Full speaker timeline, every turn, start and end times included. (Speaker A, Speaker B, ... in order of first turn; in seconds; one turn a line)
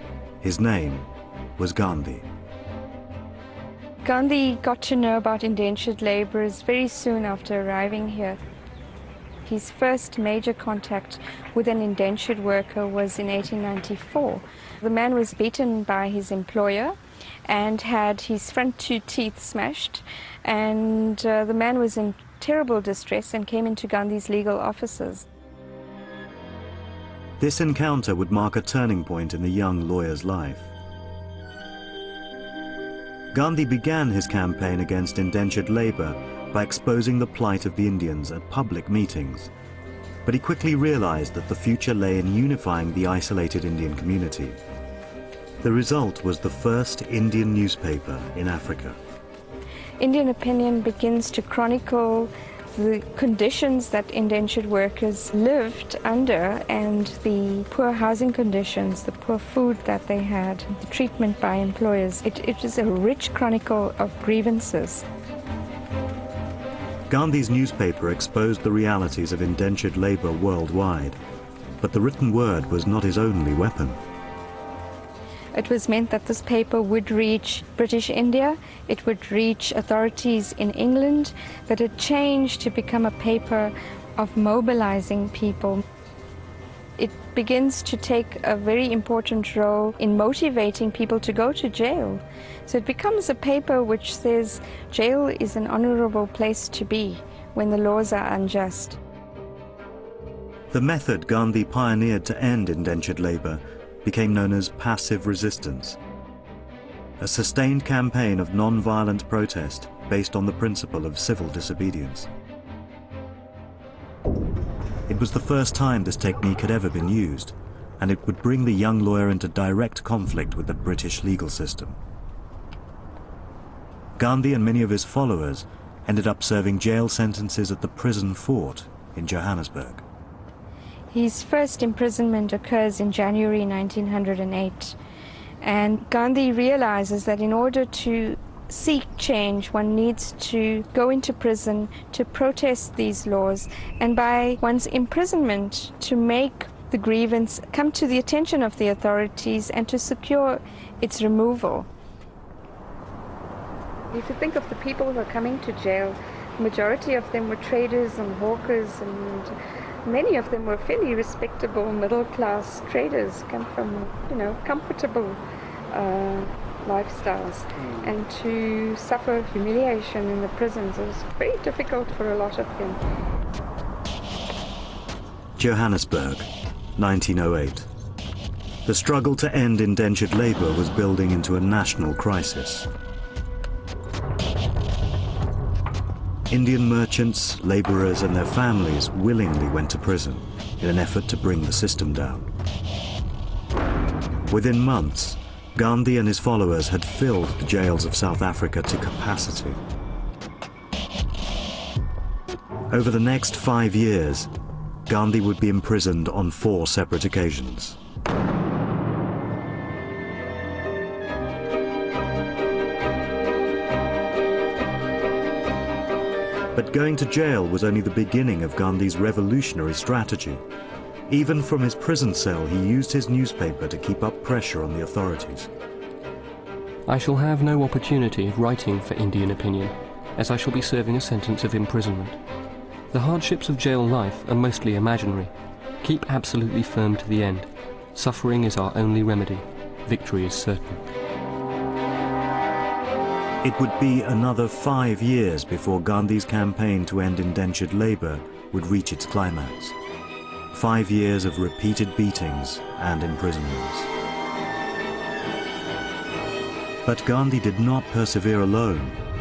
Speaker A: 0.4-2.3
Speaker B: 4.0-8.4
Speaker B: 9.4-25.2
Speaker A: 27.4-30.7
Speaker A: 33.3-39.5
Speaker A: 40.2-44.6
Speaker A: 45.6-49.0
Speaker B: 50.0-65.0
Speaker A: 67.1-71.2
Speaker A: 71.8-74.0
Speaker B: 75.5-85.8
Speaker B: 87.0-99.0
Speaker A: 100.7-106.0
Speaker A: 107.2-112.3
Speaker A: 115.1-122.0
Speaker A: 124.2-130.0
Speaker B: 131.1-135.0
Speaker B: 135.6-151.9
Speaker B: 154.1-159.5
Speaker B: 160.1-165.4
Speaker B: 165.9-173.0
Speaker A: 175.6-177.9
Speaker A: 178.8-182.9
Speaker A: 186.5-192.5
Speaker A: 194.5-199.8
Speaker A: 202.9-204.5
Speaker A: 205.1-208.0
Speaker A: 216.7-220.6
Speaker A: 221.3-225.7
Speaker C: 227.1-232.4
Speaker C: 233.1-241.0
Speaker A: 243.6-249.9
Speaker A: 250.7-254.1
Speaker A: 257.0-259.2